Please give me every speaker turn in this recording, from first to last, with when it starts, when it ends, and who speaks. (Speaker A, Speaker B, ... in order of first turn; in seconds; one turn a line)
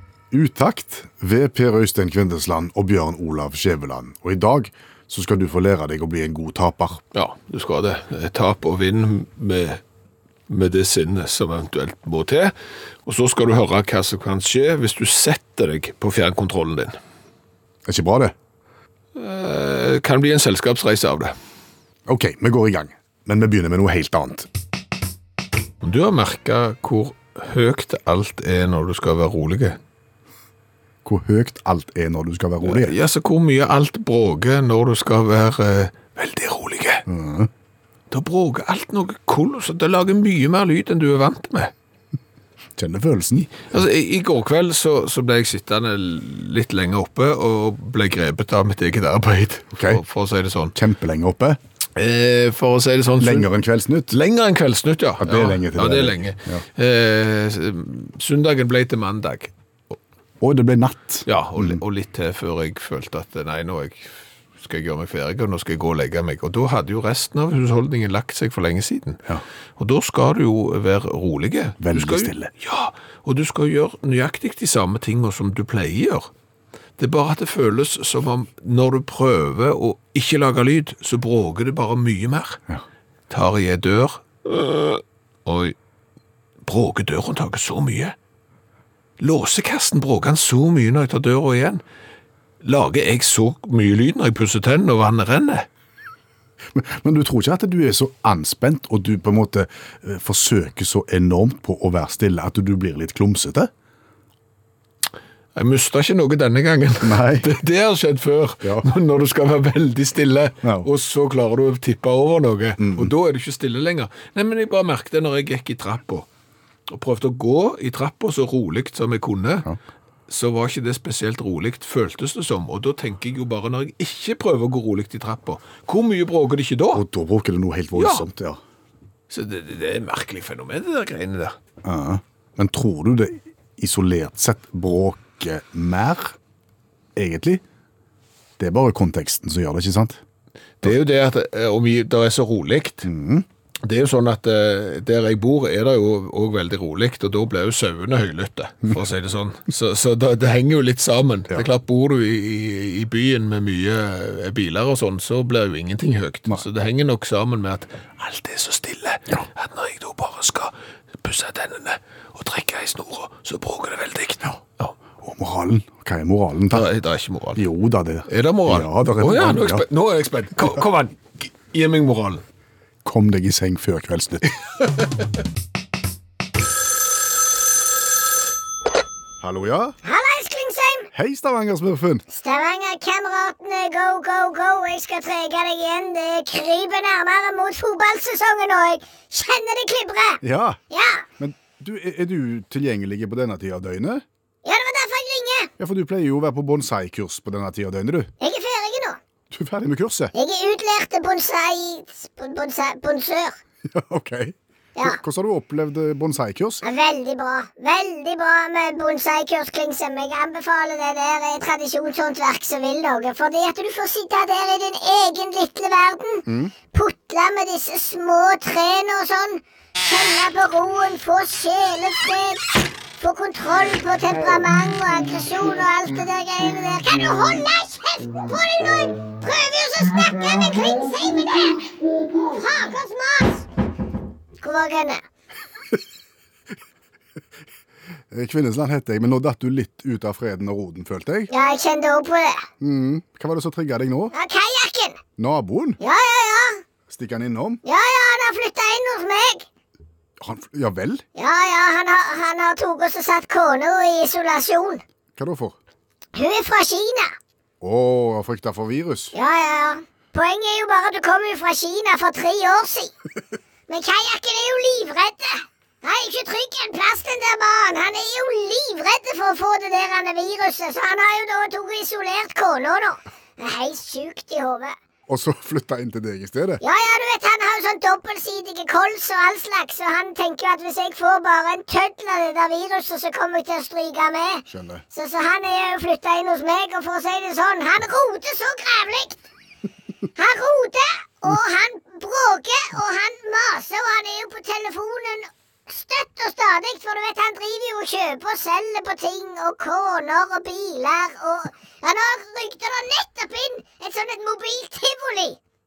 Speaker A: 0.3-7.0
Speaker B: 7.1-9.8
Speaker B: 10.5-12.5
Speaker B: 13.0-17.0
Speaker A: 17.9-18.3
Speaker B: 19.1-21.3
Speaker A: 22.1-24.5
Speaker B: 25.8-29.8
Speaker A: 31.1-33.0
Speaker B: 32.6-37.0
Speaker A: 37.0-37.5
Speaker B: 38.1-41.7
Speaker A: 42.8-43.7
Speaker B: 43.5-50.7
Speaker A: 49.7-50.0
Speaker A: 50.7-51.6
Speaker B: 52.0-53.5
Speaker A: 53.2-54.2
Speaker B: 54.1-60.0
Speaker A: 55.2-56.6
Speaker A: 60.4-61.8
Speaker B: 61.3-69.2
Speaker B: 69.8-76.3
Speaker A: 71.8-72.5
Speaker B: 77.0-82.6
Speaker B: 83.3-85.8
Speaker B: 86.6-88.1
Speaker B: 89.2-91.8
Speaker B: 92.6-95.7
Speaker A: 96.7-103.7
Speaker B: 105.5-116.3
Speaker A: 107.0-107.6
Speaker A: 110.6-110.9
Speaker A: 112.8-113.1
Speaker B: 116.9-119.7
Speaker B: 120.3-127.0
Speaker A: 126.9-128.6
Speaker B: 127.9-128.2
Speaker B: 129.3-131.5
Speaker A: 131.8-136.4
Speaker A: 137.2-137.6
Speaker A: 138.6-140.2
Speaker B: 140.8-143.1
Speaker A: 143.0-143.4
Speaker B: 143.8-164.9
Speaker A: 165.2-166.9
Speaker B: 166.7-167.6
Speaker A: 167.5-169.8
Speaker B: 168.3-172.4
Speaker A: 173.0-174.5
Speaker A: 179.4-180.0
Speaker C: 180.0-181.1
Speaker A: 181.1-182.2
Speaker C: 182.3-191.2
Speaker A: 190.4-190.8
Speaker A: 191.4-194.2
Speaker C: 194.6-195.7
Speaker A: 195.8-198.3
Speaker C: 198.4-199.2
Speaker A: 199.5-200.3
Speaker C: 200.3-203.6
Speaker A: 203.9-206.8
Speaker C: 206.8-222.7
Speaker A: 216.5-216.7
Speaker C: 223.2-231.9
Speaker C: 232.4-233.6
Speaker C: 234.6-235.2
Speaker A: 238.3-241.5
Speaker C: 241.5-242.6
Speaker A: 242.8-244.3
Speaker C: 244.3-245.2
Speaker A: 245.4-246.0
Speaker C: 246.0-246.8
Speaker A: 247.1-247.8
Speaker C: 247.8-249.7
Speaker A: 250.4-251.2
Speaker C: 251.3-255.0
Speaker A: 255.4-255.8
Speaker C: 256.3-257.3
Speaker A: 257.8-259.4
Speaker C: 259.3-263.1
Speaker C: 263.9-274.9
Speaker A: 275.3-276.8
Speaker C: 276.8-289.4
Speaker A: 284.7-285.0
Speaker C: 290.4-305.6